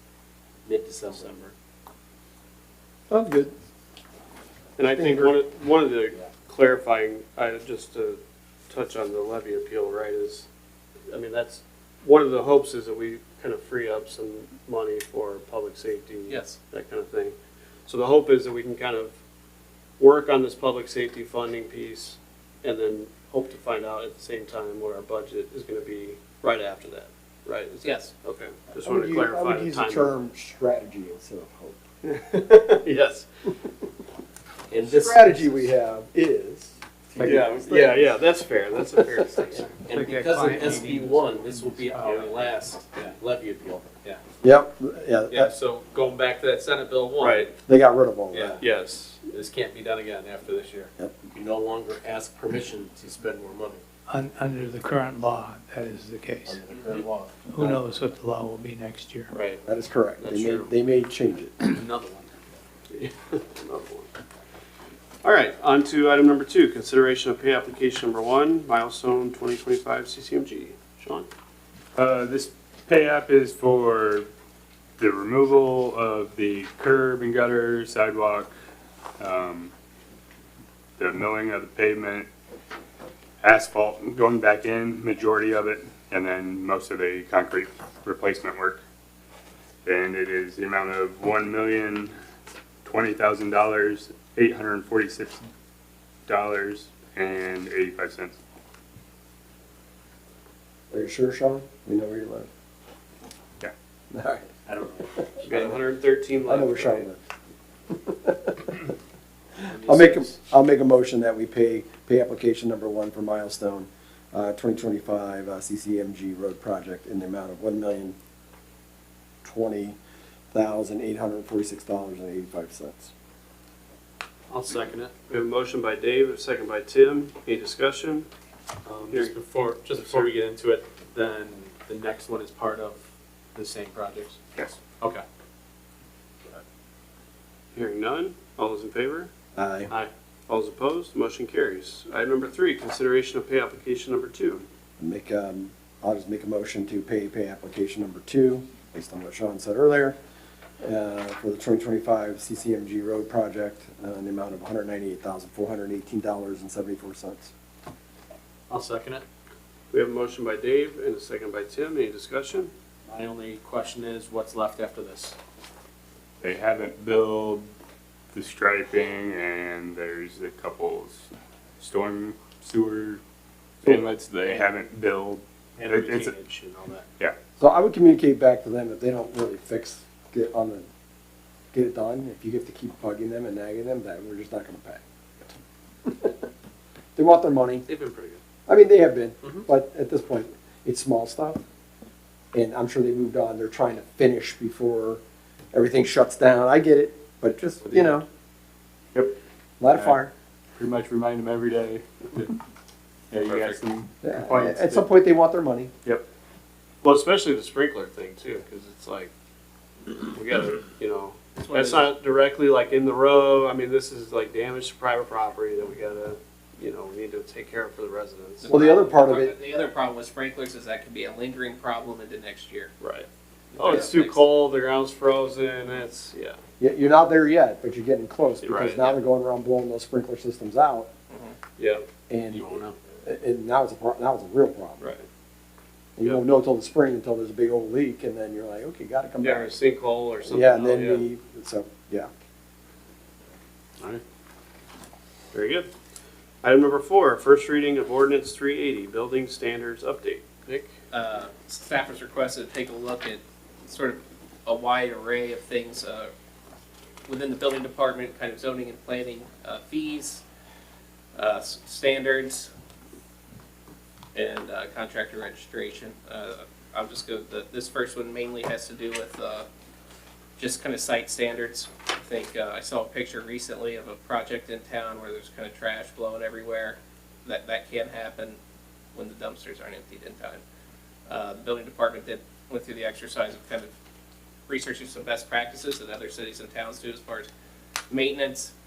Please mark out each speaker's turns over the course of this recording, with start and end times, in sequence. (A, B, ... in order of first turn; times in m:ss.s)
0:00.6-0:01.5 A
0:03.1-0:03.5 B
0:04.8-0:08.2 C
0:04.9-0:05.4 B
0:08.7-0:10.5 C
0:11.1-0:17.3 C
0:16.3-0:16.6 D
0:17.9-0:19.1 C
0:20.0-0:30.1 C
0:27.8-0:28.1 D
0:28.8-0:31.8 B
0:32.0-0:33.3 C
0:34.7-0:35.6 A
0:34.8-0:38.1 B
0:37.2-0:39.7 C
0:39.5-0:43.9 A
0:40.0-0:41.2 E
0:40.1-0:40.9 F
0:41.8-0:43.1 E
0:44.4-0:45.5 B
0:45.3-0:47.5 E
0:47.2-0:47.5 C
0:47.6-0:48.6 B
0:48.3-0:48.6 E
0:48.6-0:49.3 C
0:49.3-0:50.9 E
0:51.3-0:53.8 A
0:54.1-0:56.5 F
0:56.5-0:57.4 A
0:57.5-0:59.3 F
0:59.3-0:59.6 C
0:59.6-1:01.6 B
1:00.2-1:00.7 C
1:01.7-1:02.3 E
1:02.9-1:04.1 C
1:05.2-1:11.3 C
1:12.0-1:14.3 G
1:15.0-1:18.5 G
1:19.2-1:19.7 G
1:21.0-1:22.3 G
1:23.4-1:28.8 G
1:29.8-1:32.1 G
1:32.8-1:35.5 G
1:36.3-1:38.4 G
1:40.9-1:42.5 B
1:44.1-1:44.5 B
1:45.2-1:45.8 B
1:45.4-1:47.1 C
1:46.4-1:47.2 B
1:47.9-1:48.6 B
1:49.7-1:58.2 B
1:49.9-1:50.2 E
1:59.4-2:00.0 B
2:00.5-2:03.1 B
2:04.5-2:08.3 C
2:08.8-2:13.0 E
2:09.1-2:09.4 C
2:09.9-2:10.3 C
2:13.5-2:14.4 E
2:15.0-2:15.2 E
2:17.7-2:19.3 C
2:19.6-2:19.9 B
2:19.9-2:24.6 C
2:25.0-2:30.2 B
2:30.8-2:37.5 B
2:38.7-2:39.2 E
2:39.9-2:42.7 C
2:43.1-2:45.4 E
2:46.4-2:47.7 G
2:48.3-2:53.2 G
2:53.8-2:56.4 G
2:53.8-2:54.6 E
2:55.8-2:57.0 E
2:57.6-3:00.8 B
3:01.7-3:05.0 B
3:06.0-3:06.4 B
3:07.2-3:07.9 B
3:07.9-3:08.4 E
3:08.7-3:11.6 B
3:12.5-3:15.2 B
3:15.7-3:18.2 B
3:19.8-3:20.3 B
3:19.9-3:20.2 G
3:20.8-3:22.5 G
3:23.3-3:25.1 G
3:23.4-3:23.8 D
3:24.2-3:25.9 B
3:27.0-3:29.3 C
3:30.1-3:38.7 C
3:31.6-3:32.1 D
3:38.6-3:42.9 D
3:38.7-3:39.5 B
3:43.0-3:46.6 C
3:43.7-3:44.4 D
3:46.8-3:51.1 B
3:48.6-3:49.1 C
3:51.3-3:51.6 D
3:51.8-3:52.9 C
3:52.3-3:55.0 B
3:55.0-3:55.2 C
3:56.2-3:59.7 B
3:59.4-4:01.3 C
4:00.5-4:02.3 B
4:05.5-4:05.9 C
4:06.6-4:10.9 C
4:11.1-4:16.3 D
4:17.2-4:20.4 D
4:21.3-4:22.7 D
4:24.3-4:29.7 D
4:30.6-4:38.6 D
4:39.1-4:40.6 D
4:41.3-4:43.9 D
4:44.7-4:47.5 D
4:48.1-4:48.7 D